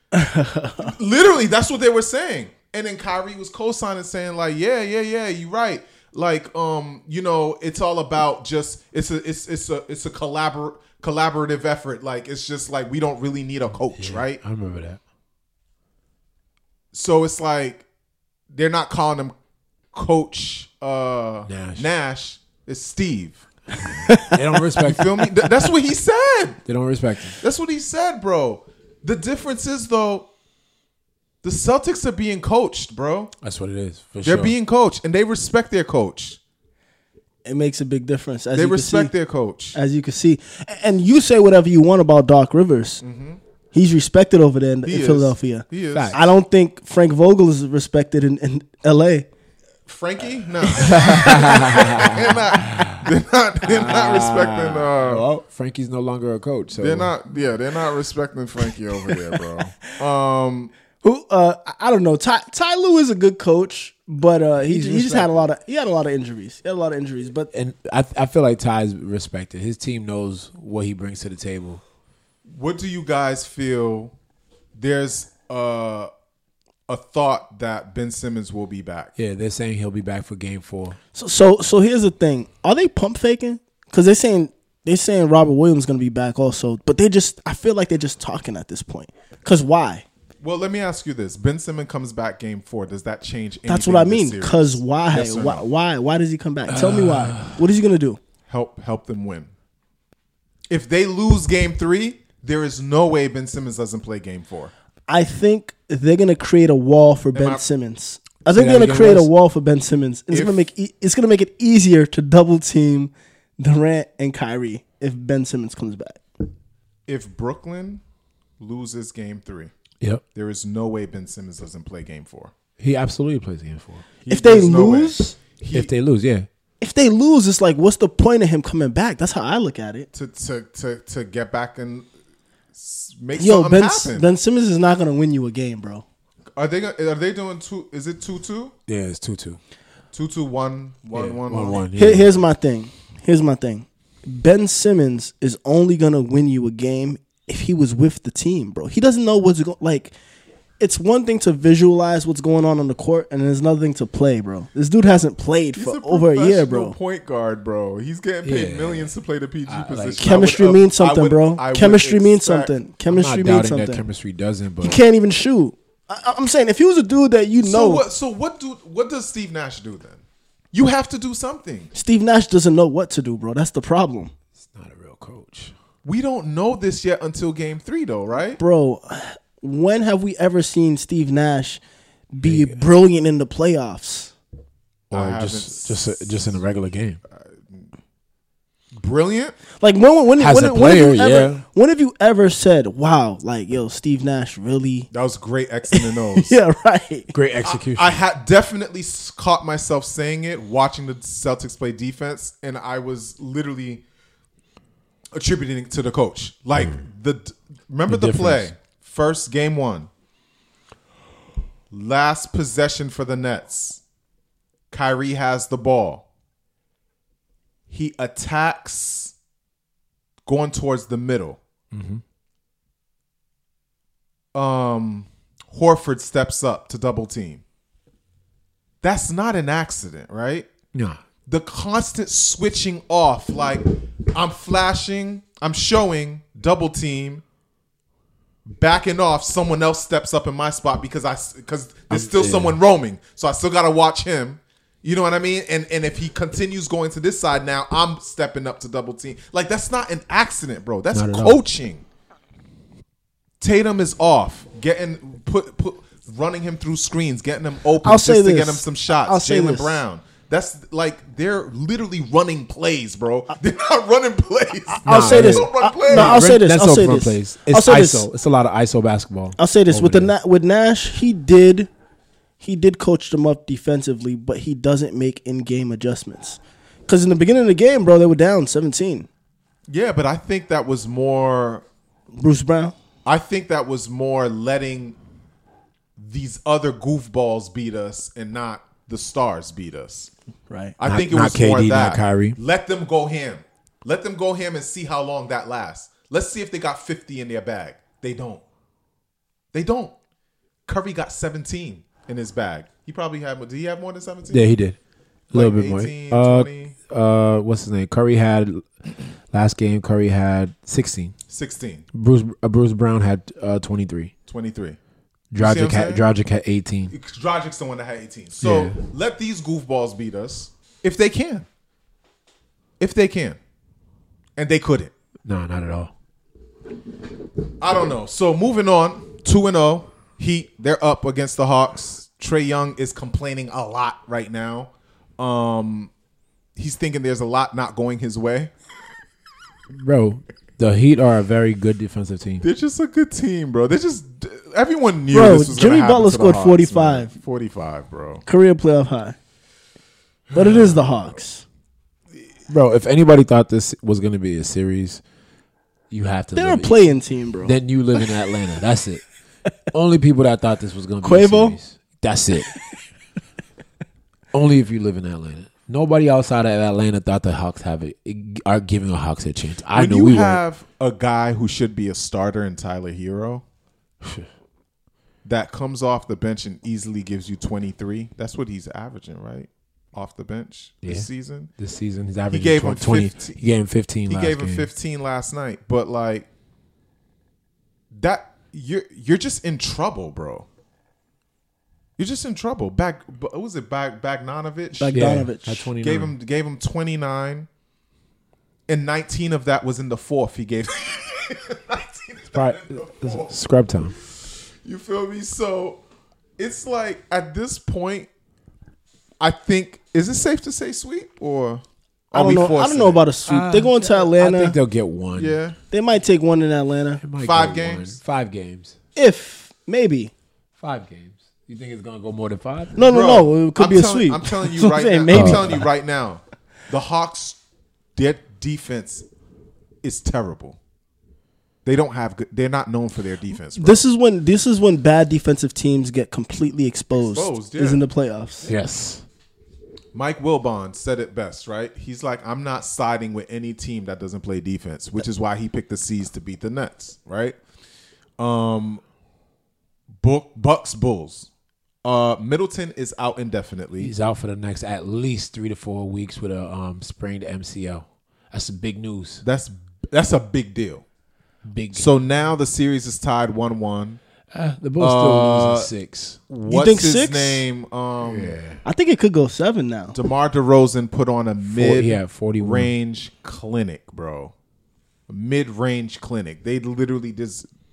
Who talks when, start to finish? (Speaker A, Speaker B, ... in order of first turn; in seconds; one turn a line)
Speaker A: 0.1-0.9
Speaker B: 0.8-14.4
Speaker C: 13.9-15.0
Speaker B: 16.9-17.9
Speaker B: 18.5-19.3
Speaker B: 19.9-23.4
Speaker C: 21.5-21.9
Speaker A: 23.9-24.4
Speaker C: 24.2-25.1
Speaker B: 24.8-26.6
Speaker C: 26.6-27.4
Speaker B: 27.4-30.3
Speaker B: 31.4-33.3
Speaker C: 33.4-34.5
Speaker B: 34.2-36.4
Speaker A: 37.4-39.1
Speaker B: 38.5-39.8
Speaker A: 39.7-43.0
Speaker B: 43.0-43.4
Speaker A: 43.7-49.3
Speaker B: 44.9-46.2
Speaker C: 45.9-46.3
Speaker B: 49.9-55.2
Speaker C: 50.8-53.0
Speaker A: 51.0-51.8
Speaker C: 53.6-57.1
Speaker B: 56.8-60.7
Speaker A: 61.0-67.5
Speaker C: 64.6-65.4
Speaker C: 67.5-71.8
Speaker B: 72.5-74.1
Speaker B: 74.8-76.1
Speaker B: 76.9-79.1
Speaker C: 79.2-81.0
Speaker A: 81.1-90.0
Speaker B: 90.4-95.6
Speaker A: 93.7-98.2
Speaker C: 96.7-97.6
Speaker B: 98.5-99.5
Speaker B: 100.7-104.7
Speaker A: 105.1-116.2
Speaker B: 107.3-107.6
Speaker C: 108.5-109.3
Speaker B: 110.3-110.6
Speaker B: 117.1-118.0
Speaker B: 118.6-119.7
Speaker B: 120.3-122.5
Speaker C: 122.8-124.1
Speaker B: 124.2-125.9
Speaker A: 124.3-125.4
Speaker C: 125.7-126.5
Speaker A: 126.8-130.1
Speaker B: 130.1-132.1
Speaker B: 132.7-134.3
Speaker A: 133.4-136.0
Speaker B: 136.6-138.7
Speaker C: 138.9-139.6
Speaker B: 140.1-141.8
Speaker C: 141.1-142.3
Speaker A: 141.9-150.1
Speaker A: 150.8-156.9
Speaker B: 155.7-162.7
Speaker C: 158.4-159.1
Speaker C: 159.7-160.5
Speaker A: 160.2-164.0
Speaker C: 163.1-165.0
Speaker A: 164.8-168.0
Speaker B: 167.6-171.9
Speaker A: 171.9-174.3
Speaker C: 174.6-175.7
Speaker B: 176.0-178.6
Speaker A: 178.6-181.8
Speaker A: 182.3-184.3
Speaker C: 182.4-182.8
Speaker B: 185.1-186.5
Speaker C: 185.1-187.2
Speaker B: 187.3-187.9
Speaker B: 188.9-189.6
Speaker A: 189.8-195.1
Speaker C: 190.4-191.6
Speaker B: 195.1-196.6
Speaker A: 195.9-197.3
Speaker C: 197.3-198.2
Speaker B: 197.6-204.0
Speaker B: 205.3-210.1
Speaker C: 208.1-208.7
Speaker B: 211.9-214.0
Speaker B: 214.9-216.2
Speaker B: 217.9-219.3
Speaker B: 220.4-221.6
Speaker C: 221.9-222.2
Speaker B: 224.5-227.6
Speaker B: 229.0-230.7
Speaker C: 230.9-231.2
Speaker B: 231.5-237.4
Speaker B: 238.7-252.0
Speaker C: 242.1-242.8
Speaker C: 251.1-251.6
Speaker B: 253.6-266.5
Speaker A: 258.0-260.0
Speaker A: 265.0-268.2
Speaker C: 265.0-270.3
Speaker A: 269.6-271.9
Speaker A: 272.6-279.3
Speaker B: 279.9-281.8
Speaker A: 282.4-282.9
Speaker B: 283.2-285.1
Speaker B: 286.2-290.3
Speaker A: 290.7-290.9
Speaker B: 291.0-298.6
Speaker C: 291.0-292.6
Speaker B: 299.7-300.1
Speaker B: 300.9-304.7
Speaker C: 304.5-305.0
Speaker C: 305.5-308.9
Speaker B: 305.5-306.9
Speaker C: 309.5-311.3
Speaker B: 311.5-312.1
Speaker C: 312.1-314.3
Speaker B: 314.5-315.0
Speaker C: 315.5-317.1
Speaker B: 315.6-316.2
Speaker B: 317.1-321.6
Speaker C: 318.6-319.0
Speaker B: 323.0-323.6
Speaker B: 324.6-325.1
Speaker C: 325.4-326.1
Speaker B: 327.8-336.1
Speaker B: 336.8-338.7
Speaker C: 339.9-342.6
Speaker B: 342.6-348.4
Speaker A: 345.3-347.3
Speaker A: 348.4-349.4
Speaker B: 350.5-351.0
Speaker A: 350.5-351.6
Speaker C: 352.7-355.2
Speaker C: 356.1-357.1
Speaker A: 356.5-357.7
Speaker C: 357.6-359.2
Speaker C: 359.9-362.7
Speaker A: 361.2-361.8
Speaker C: 364.5-370.6
Speaker B: 369.9-373.6
Speaker C: 374.2-374.5
Speaker B: 375.4-381.7
Speaker C: 381.0-384.9
Speaker B: 382.5-383.6
Speaker B: 384.3-386.5
Speaker B: 388.1-390.7
Speaker B: 392.2-395.2
Speaker A: 395.0-395.9
Speaker C: 395.1-396.3
Speaker B: 396.0-397.7
Speaker B: 398.9-403.5
Speaker C: 402.5-404.1
Speaker B: 404.3-406.0
Speaker B: 406.6-408.3
Speaker B: 409.4-413.2
Speaker A: 412.3-414.8
Speaker C: 413.4-415.6
Speaker B: 415.3-415.8
Speaker A: 415.9-417.2
Speaker C: 417.2-418.9
Speaker B: 417.4-418.2
Speaker A: 419.1-420.3
Speaker C: 420.8-423.0
Speaker A: 422.9-425.8
Speaker B: 423.1-427.6
Speaker C: 425.3-425.8
Speaker B: 428.1-429.2
Speaker B: 430.0-430.8
Speaker B: 431.8-434.0
Speaker A: 433.7-438.7
Speaker B: 437.1-438.0
Speaker C: 438.6-439.2
Speaker B: 440.1-447.6
Speaker B: 448.4-449.0
Speaker B: 450.2-451.5
Speaker B: 452.0-454.1
Speaker C: 454.0-459.4
Speaker B: 459.4-461.0
Speaker C: 461.6-462.1
Speaker B: 461.9-464.2
Speaker C: 464.5-466.4
Speaker B: 465.0-465.9
Speaker B: 466.5-468.6
Speaker A: 466.7-467.6
Speaker C: 468.2-468.8
Speaker A: 468.8-470.2
Speaker B: 470.1-474.5
Speaker C: 471.6-472.9
Speaker B: 475.3-477.7